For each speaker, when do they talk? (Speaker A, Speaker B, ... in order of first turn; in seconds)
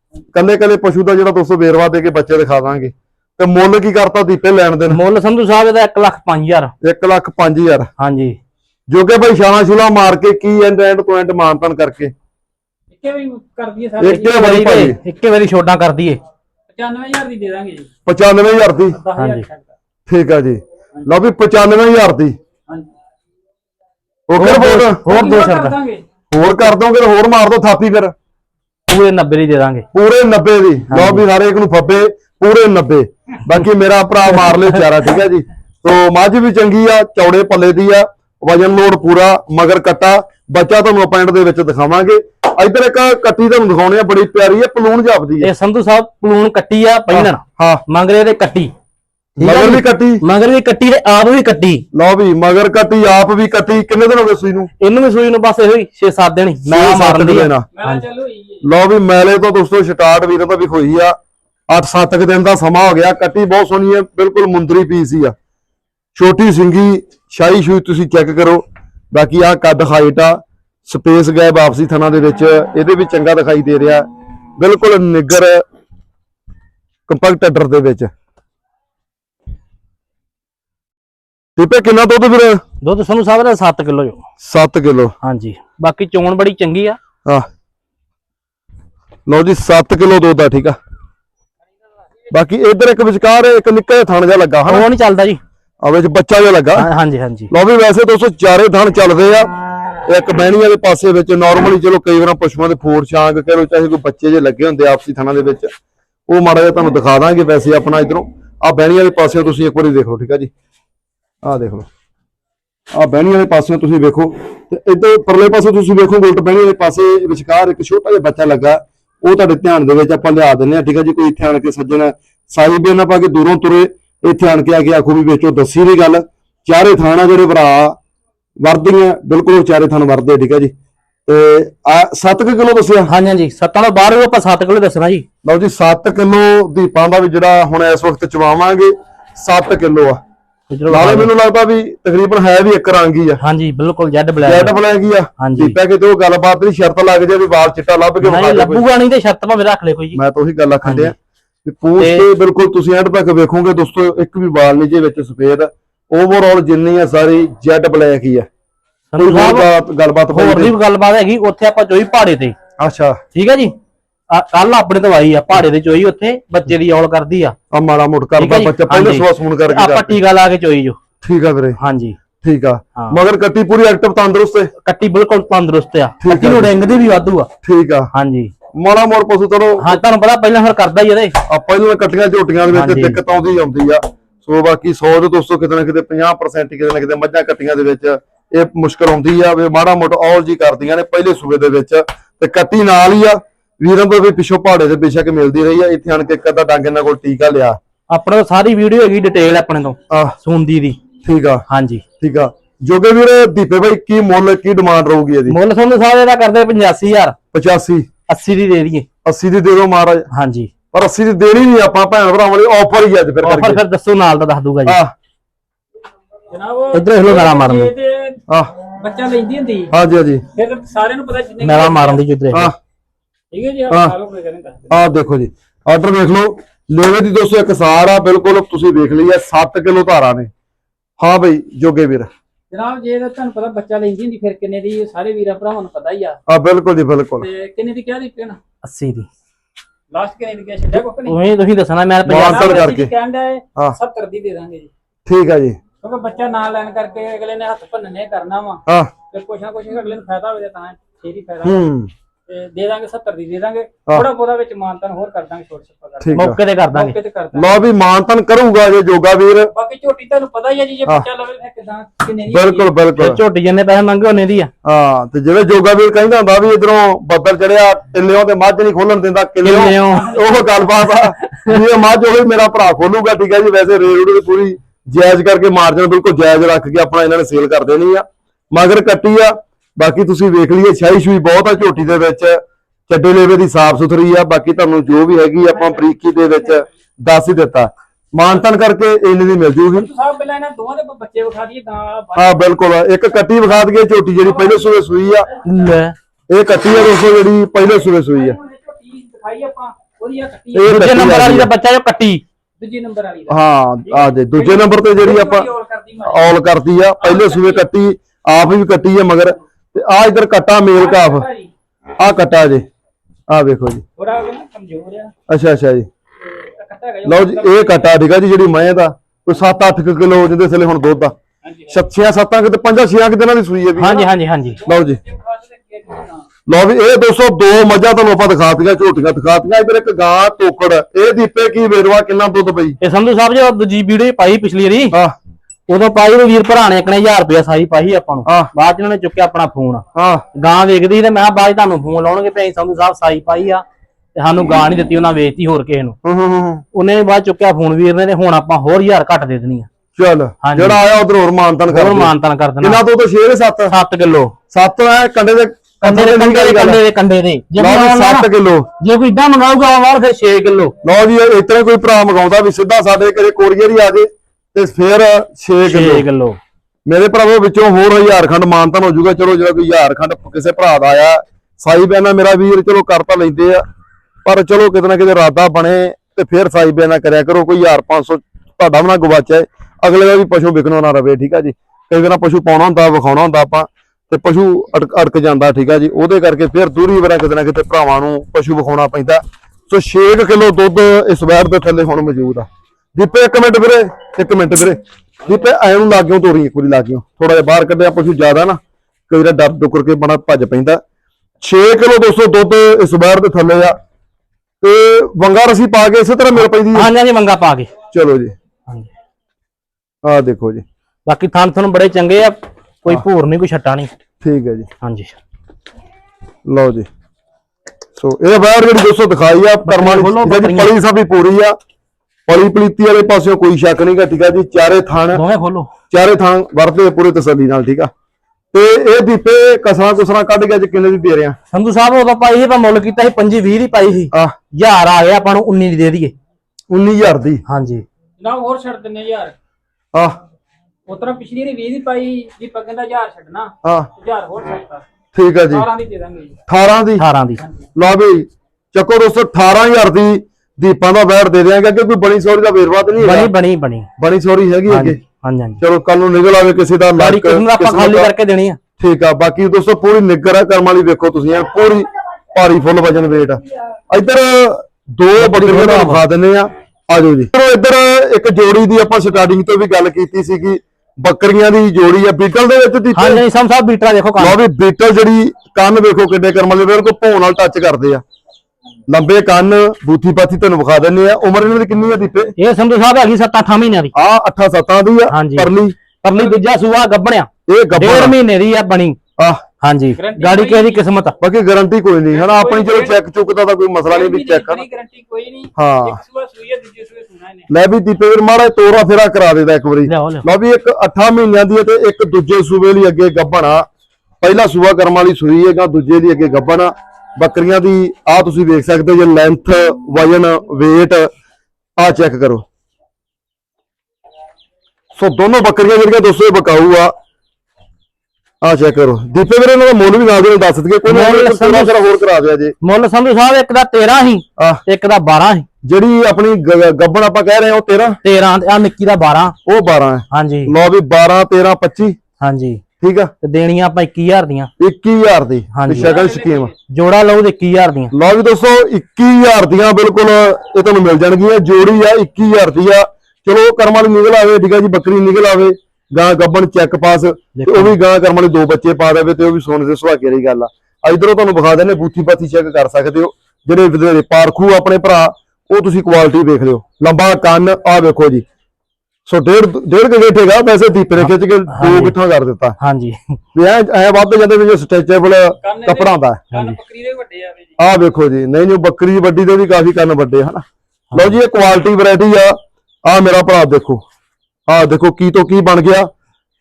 Speaker A: 0.3-5.0, 6.8-7.9, 8.9-12.1, 14.0-15.0, 18.1-19.0, 20.1-22.4, 24.3-25.0, 26.3-28.1, 29.9-45.5, 47.1-47.8, 49.4-50.2, 51.9-54.7, 56.7-57.7, 58.6-61.2, 61.7-65.3, 66.2-74.1, 74.6-75.6, 77.1-78.1, 81.6-82.6, 84.4-85.2, 89.3-90.8, 92.3-94.9, 95.8-96.9, 97.5-99.5, 100.1-105.7, 106.3-110.5, 111.4-111.9, 112.9-128.0, 128.6-130.7, 131.3-133.1, 135.4-140.2, 140.9-143.4, 144.4-148.8, 150.1-151.1, 151.7-158.5, 159.2-160.7, 162.8-163.2, 167.7-170.2, 171.2-171.8, 172.4-174.7, 176.2-176.7, 177.6-178.1, 178.7-180.0, 181.5-197.8, 200.1-200.4, 201.2-201.7, 202.2-205.6, 207.5-208.1, 209.2-210.3, 210.9-213.8, 214.8-215.1, 219.9-220.4, 224.9-230.5, 231.2-232.3, 236.5-237.5, 242.3-243.1, 245.3-245.8, 248.9-249.1, 251.6-252.1, 256.2-256.6, 257.5-259.7, 262.5-263.4, 264.8-290.1, 292.3-295.5, 296.5-298.6, 300.7-301.7, 303.5-305.7, 306.2-311.5, 312.2-312.9, 313.5-314.0, 315.5-316.1, 317.2-321.3, 321.9-324.2, 324.8-325.2, 326.7-333.0, 338.4-338.7, 340.1-340.4, 346.2-346.8, 350.1-353.9, 354.7-357.0, 357.8-358.9, 361.0-366.3, 367.1-373.8, 374.4-401.0, 401.6-404.0, 404.8-407.1, 408.1-408.5, 410.2-410.8, 414.4-414.9, 416.7-417.1, 418.2-421.8, 422.5-425.4, 426.1-428.1, 428.7-431.6, 436.9-437.6, 445.3-445.9, 446.7-447.2, 447.9-453.5, 454.2-455.2, 455.8-458.3, 459.0-463.6, 464.1-473.4, 474.4-478.2, 479.1-482.5, 484.1-486.0, 487.7-488.4, 489.4-489.6, 491.4-494.8, 495.8-496.2, 497.7-503.9, 504.4-511.3, 512.0-512.6, 515.1-517.1, 518.6-522.8, 524.6-524.8, 525.8-528.2, 529.6-532.2, 533.0-533.3, 534.8-536.7, 538.1-558.4, 559.3-562.8, 563.5-566.4, 567.8-574.0, 574.7-576.1
Speaker B: 4.9-6.7, 8.0-8.4, 14.2-16.2, 19.2-19.4, 24.4-25.8, 28.9-29.9, 30.9-31.2, 34.5-34.8, 45.4-48.7, 49.4-51.9, 54.8-58.0, 82.8-84.2, 85.2-87.0, 94.7-95.4, 96.8-97.5, 133.1-135.2, 140.7-141.3, 143.4-144.7, 145.4-145.8, 148.2-150.2, 150.8-151.1, 152.0-152.2, 159.1-159.7, 160.3-162.6, 163.3-163.8, 164.3-167.6, 168.4-171.0, 171.8-172.2, 174.8-177.5, 178.1-178.5, 179.8-181.4, 182.7-183.2, 198.1-201.0, 201.7-202.0, 205.5-207.4, 208.3-209.1, 210.3-210.7, 213.4-215.0, 216.9-217.9, 221.6-222.7, 238.8-239.3, 241.2-242.9, 256.3-257.2, 263.2-264.7, 269.6-270.3, 295.6-296.2, 300.9-302.4, 324.0-324.8, 333.0-335.1, 335.9-343.8, 344.3-346.2, 346.9-349.9, 350.6-351.0, 351.9-353.0, 353.9-354.5, 356.0-360.9, 365.9-366.6, 406.6-407.9, 411.3-414.1, 415.0-415.4, 419.8-420.9, 425.3-425.9, 431.7-436.3, 437.7-438.1, 447.2-447.6, 453.2-454.1, 454.9-455.8, 457.2-458.8, 465.4-466.2, 473.1-474.6, 482.6-484.1, 485.3-485.7, 486.2-489.2, 489.8-491.4, 500.1-500.5, 521.1-521.9, 522.8-525.7, 528.2-529.6, 530.3-530.7, 532.4-532.8, 533.4-534.7, 535.7-536.1, 536.9-538.1, 547.5-548.0, 561.2-562.1, 562.8-563.4, 566.5-566.8, 571.1-571.4
Speaker C: 12.9-14.4, 16.7-17.9, 18.9-19.7, 25.1-26.1, 57.8-58.6, 216.5-218.4, 218.9-219.9, 220.6-222.2, 223.5-224.9, 232.7-236.4, 237.4-238.6, 240.1-241.4, 242.4-244.9, 246.0-251.8, 252.5-257.8, 259.7-262.9, 270.2-270.6, 285.9-286.5, 290.0-292.7, 294.6-294.9, 298.1-301.0, 302.8-306.6, 307.2-307.9, 311.0-311.7, 314.2-315.3, 316.6-318.2, 321.6-321.9, 324.1-326.4, 438.4-439.5, 441.1-445.1, 445.7-446.6, 490.2-491.0, 492.3-493.2, 494.1-497.7, 536.0-536.7, 565.6-567.8